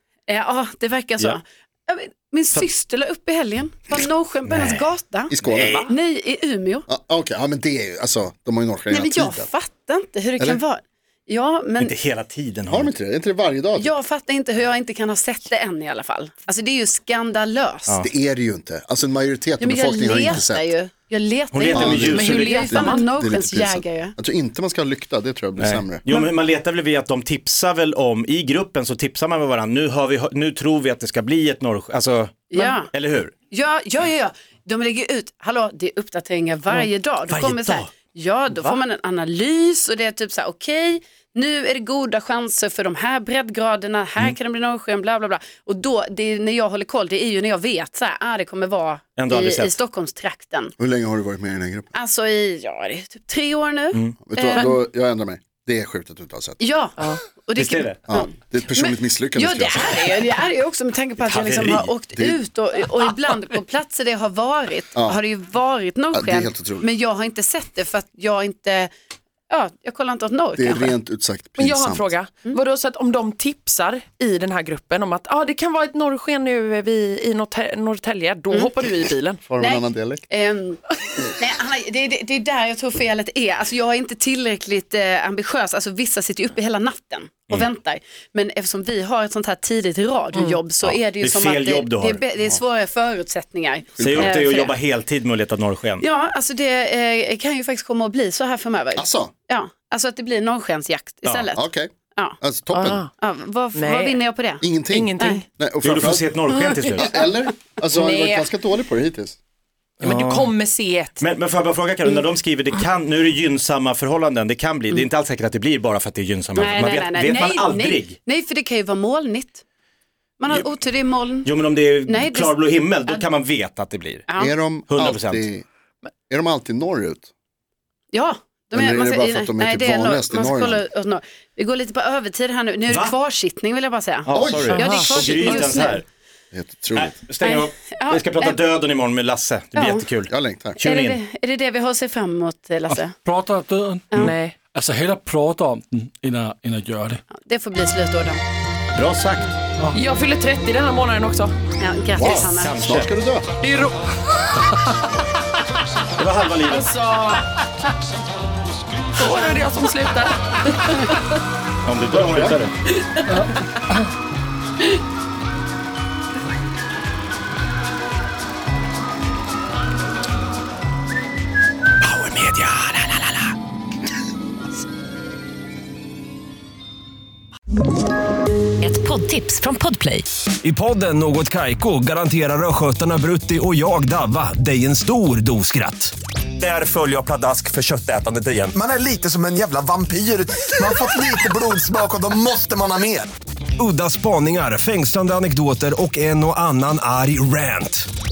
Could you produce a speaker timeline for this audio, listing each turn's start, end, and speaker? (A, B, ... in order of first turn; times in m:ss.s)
0:00.3-0:06.8 A
0:04.5-0:04.8 B
0:05.3-0:05.8 C
0:05.4-0:05.8 B
0:05.6-0:05.9 D
0:06.9-0:09.5 C
0:08.9-0:11.9 A
0:11.8-0:12.9 B
0:12.7-0:13.9 C
0:13.7-0:18.0 A
0:18.0-0:20.7 C
0:19.6-0:24.1 A
0:21.5-0:22.9 B
0:21.7-0:26.0 C
0:25.6-0:33.3 B
0:32.5-0:32.9 A
0:33.5-0:50.7 A
0:37.3-0:37.9 B
0:38.5-0:38.8 D
0:49.2-0:49.7 B
0:50.8-0:51.9 C
0:51.9-0:54.8 A
0:54.2-0:56.6 C
0:56.6-1:08.9 A
0:57.6-0:58.0 B
0:58.1-1:00.3 C
1:01.2-1:01.9 B
1:04.9-1:05.2 C
1:06.1-1:06.8 C
1:09.5-1:10.9 A
1:10.6-1:12.1 C
1:11.6-1:19.4 D
1:19.5-1:20.3 C
1:19.6-1:34.8 A
1:30.8-1:32.2 B
1:34.0-1:34.4 C
1:34.0-1:36.0 B
1:36.0-1:41.6 A
1:39.0-1:39.3 C
1:41.2-1:41.5 B
1:41.5-1:43.0 C
1:42.7-1:43.1 D
1:43.2-1:45.4 A
1:43.7-1:44.2 D
1:44.6-1:46.3 C
1:44.8-1:45.4 D
1:45.8-1:47.1 B
1:46.5-1:47.3 D
1:46.9-1:49.4 C
1:47.9-1:48.5 D
1:50.0-1:50.5 B
1:50.0-1:51.2 D
1:51.2-1:58.2 B
1:56.5-1:59.6 A
2:00.4-2:03.2 A
2:01.4-2:04.2 B
2:04.3-2:04.5 A
2:04.4-2:05.6 C
2:04.9-2:05.5 B
2:06.3-2:07.3 C
2:08.1-2:16.0 A
2:08.7-2:10.8 C
2:12.9-2:13.1 B
2:14.2-2:16.0 B
2:14.3-2:15.6 C
2:14.7-2:15.3 D
2:16.5-2:17.2 C
2:16.9-2:21.2 B
2:17.4-2:18.6 A
2:19.7-2:20.1 A
2:20.3-2:20.8 C
2:20.8-2:23.1 A
2:23.2-2:27.2 E
2:24.1-2:24.4 A
2:24.2-2:24.5 D
2:27.4-2:28.4 A
2:28.9-2:29.5 B
2:29.9-2:31.5 D
2:31.8-2:32.8 A
2:32.1-2:33.5 C
2:32.4-2:33.1 B
2:33.6-2:34.1 D
2:36.2-2:36.9 B
2:36.7-2:37.4 D
2:39.2-2:41.2 D
2:41.8-2:42.7 B
2:42.3-2:42.6 C
2:42.9-2:43.6 D
2:52.1-2:53.4 D
2:59.9-3:00.2 D
3:00.6-3:08.8 F
3:08.8-3:13.2 G
3:10.9-3:11.2 F
3:13.8-3:18.1 F